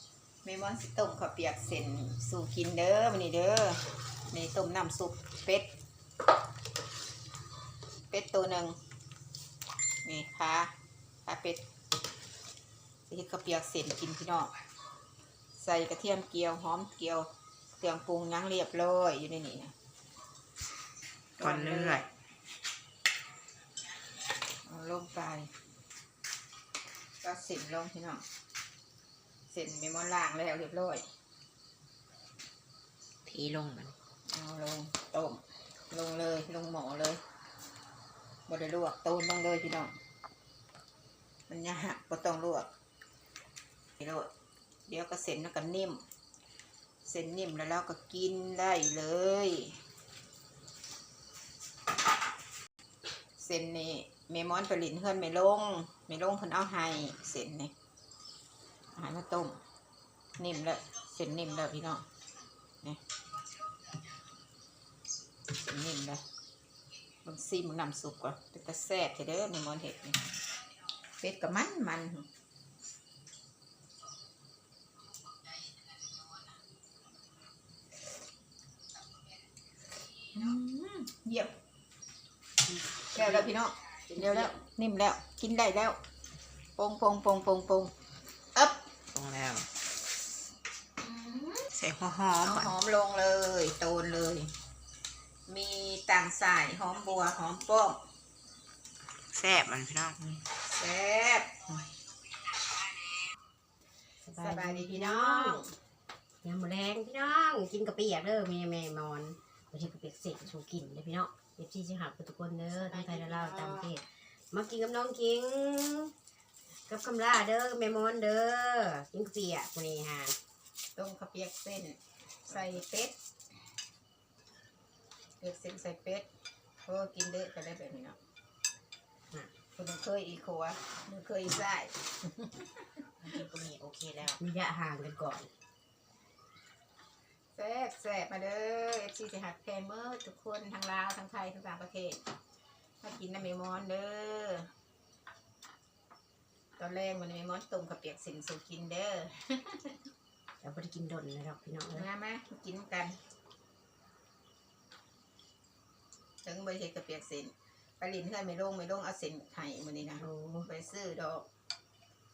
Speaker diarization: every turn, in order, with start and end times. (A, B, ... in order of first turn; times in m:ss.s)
0:00.4-0:05.7 A
0:08.1-0:08.8 A
0:10.0-0:10.7 A
0:11.3-0:11.6 A
0:13.1-0:14.5 A
0:15.5-0:17.3 A
0:17.8-0:19.7 A
0:21.4-0:22.0 A
0:21.4-0:22.0 B
0:24.6-0:25.5 A
0:27.2-0:28.2 A
0:29.5-0:31.0 A
0:33.3-0:33.9 B
0:34.3-0:37.2 A
0:38.5-0:40.0 A
0:41.5-0:42.7 A
0:44.0-0:44.3 A
0:44.9-0:46.0 A
0:47.0-0:49.8 A
0:53.4-0:57.7 A
0:59.0-0:59.6 A
1:00.4-1:02.1 A
1:05.5-1:06.2 A
1:07.2-1:10.3 A
1:11.2-1:12.3 A
1:20.3-1:21.6 A
1:22.7-1:23.5 C
1:23.0-1:26.0 A
1:24.1-1:24.6 C
1:26.8-1:27.9 A
1:28.6-1:28.9 A
1:29.1-1:29.7 B
1:31.0-1:31.7 A
1:31.7-1:32.7 B
1:32.4-1:34.5 A
1:35.5-1:38.0 A
1:39.3-1:40.2 B
1:40.7-1:42.0 A
1:44.2-1:45.6 C
1:44.4-1:45.8 A
1:46.4-1:56.1 C
1:53.0-1:53.9 A
1:56.9-2:00.4 C
2:01.0-2:03.1 A
2:05.4-2:06.3 A
2:06.8-2:08.2 A
2:09.8-2:13.0 A
2:13.2-2:14.3 B
2:14.2-2:15.5 C
2:17.6-2:22.2 A
2:23.0-2:24.7 A
2:26.8-2:30.0 A
2:30.6-2:32.1 C
2:31.9-2:33.2 A
2:36.4-2:41.5 A
2:40.2-2:40.7 C